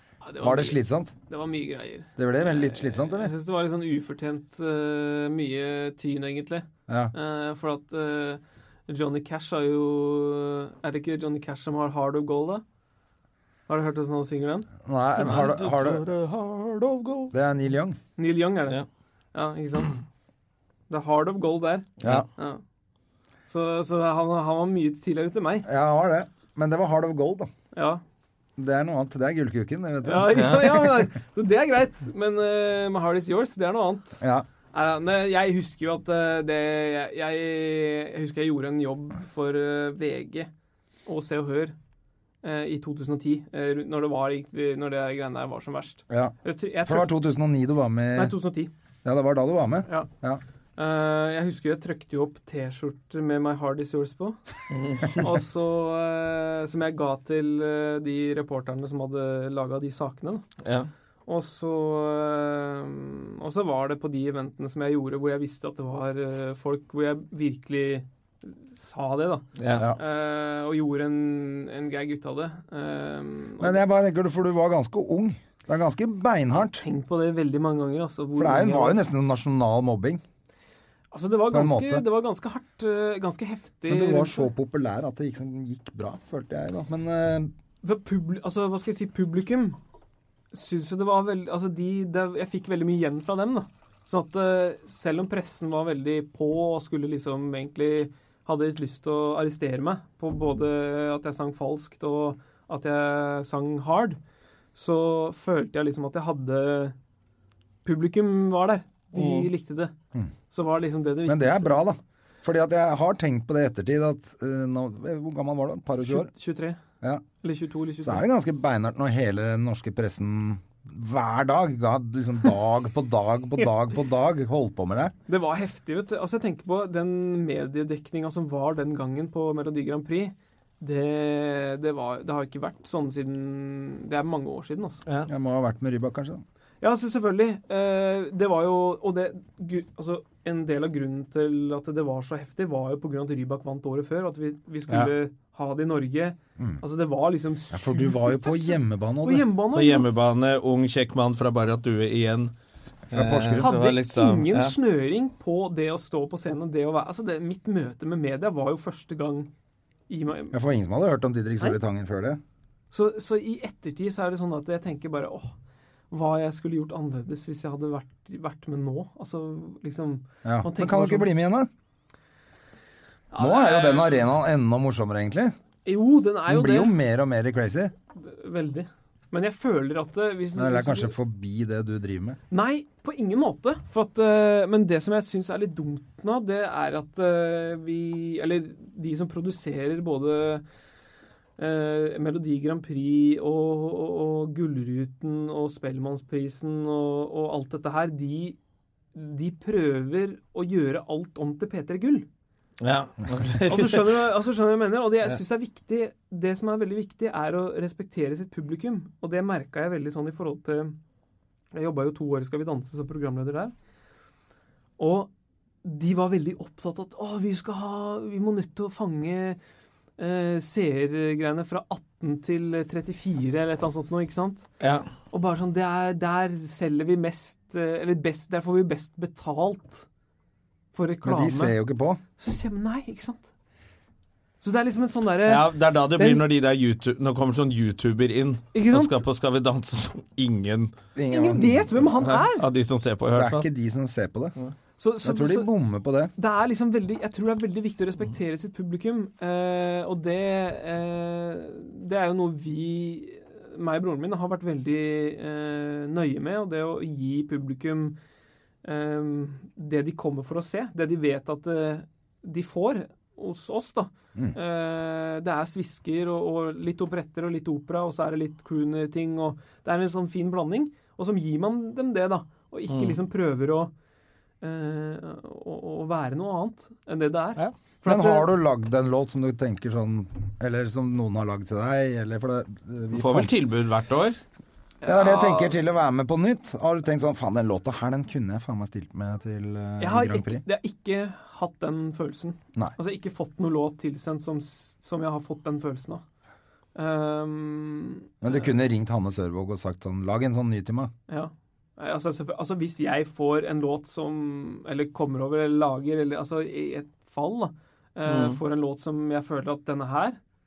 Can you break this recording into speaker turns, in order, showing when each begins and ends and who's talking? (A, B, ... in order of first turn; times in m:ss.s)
0:00.2-0:12.6 A
0:00.4-0:01.1 B
0:02.2-0:03.3 B
0:06.9-0:07.1 B
0:13.7-0:14.7 A
0:14.8-0:16.0 B
0:15.2-0:17.3 C
0:17.3-0:18.0 B
0:18.2-0:18.8 A
0:19.3-0:20.0 A
0:20.9-0:22.6 A
0:22.0-0:22.2 B
0:23.5-0:25.7 A
0:25.6-0:27.5 B
0:27.7-0:28.0 A
0:28.6-0:31.1 B
0:30.0-0:40.5 A
0:41.0-0:41.7 A
0:42.4-0:47.1 A
0:46.1-0:48.4 B
0:48.1-0:48.7 A
0:49.0-0:50.4 B
0:50.8-0:54.4 A
0:54.7-0:55.3 C
0:55.1-1:00.4 A
1:00.6-1:00.9 C
1:01.2-1:13.8 A
1:09.6-1:09.9 C
1:09.7-1:10.0 B
1:13.6-1:16.8 B
1:16.7-1:19.0 A
1:18.4-1:20.2 B
1:21.1-1:24.5 A
1:21.5-1:22.0 B
1:23.9-1:27.5 B
1:27.8-1:29.8 A
1:30.5-1:44.2 A
1:44.7-1:46.9 A
1:47.8-1:49.9 A
1:49.1-1:49.5 C
1:50.5-1:51.8 A
1:51.2-1:56.3 B
1:56.0-1:56.8 A
1:57.4-1:58.2 A
1:58.0-2:05.1 B
2:05.3-2:15.0 A
2:15.3-2:16.4 B
2:16.8-2:30.1 A
2:27.7-2:29.5 B
2:29.7-2:32.5 C
2:33.1-2:34.7 C
2:33.1-2:33.7 B
2:33.6-2:39.5 A
2:40.1-2:40.6 A
2:40.5-2:42.4 B
2:42.9-2:45.5 A
2:46.1-2:51.3 A
2:50.4-2:51.7 B
2:53.3-2:54.3 A
2:53.4-2:55.5 B
2:55.8-2:57.0 A
2:56.5-2:57.9 B
2:58.1-3:01.1 A
3:00.5-3:02.4 B
3:02.5-3:10.6 A
3:11.6-3:18.6 A
3:19.1-3:22.3 A
3:22.8-3:24.2 C
3:23.7-3:31.0 A
3:31.7-3:33.7 A
3:35.0-3:35.3 A
3:35.8-3:39.6 A
3:40.2-3:44.7 A
3:44.8-3:45.1 C
3:45.3-3:50.0 A
3:50.9-3:51.8 A
3:51.2-3:52.2 B
3:52.4-3:53.5 A
3:54.6-3:56.4 A
3:55.4-4:00.9 C
3:58.7-3:59.2 A
4:01.2-4:02.3 B
4:01.3-4:02.7 A
4:02.2-4:03.6 C
4:03.3-4:04.5 B
4:05.0-4:05.7 A
4:05.2-4:06.3 B
4:06.4-4:18.2 A
4:18.8-4:33.9 A
4:32.9-4:33.2 C
4:34.6-4:38.5 A
4:38.0-4:43.5 B
4:43.1-4:44.4 C
4:45.0-4:45.8 A
4:45.0-4:50.6 B
4:50.0-4:56.2 A
4:56.9-4:58.7 A
4:58.4-5:01.1 B
5:01.3-5:10.4 A
5:08.2-5:08.6 C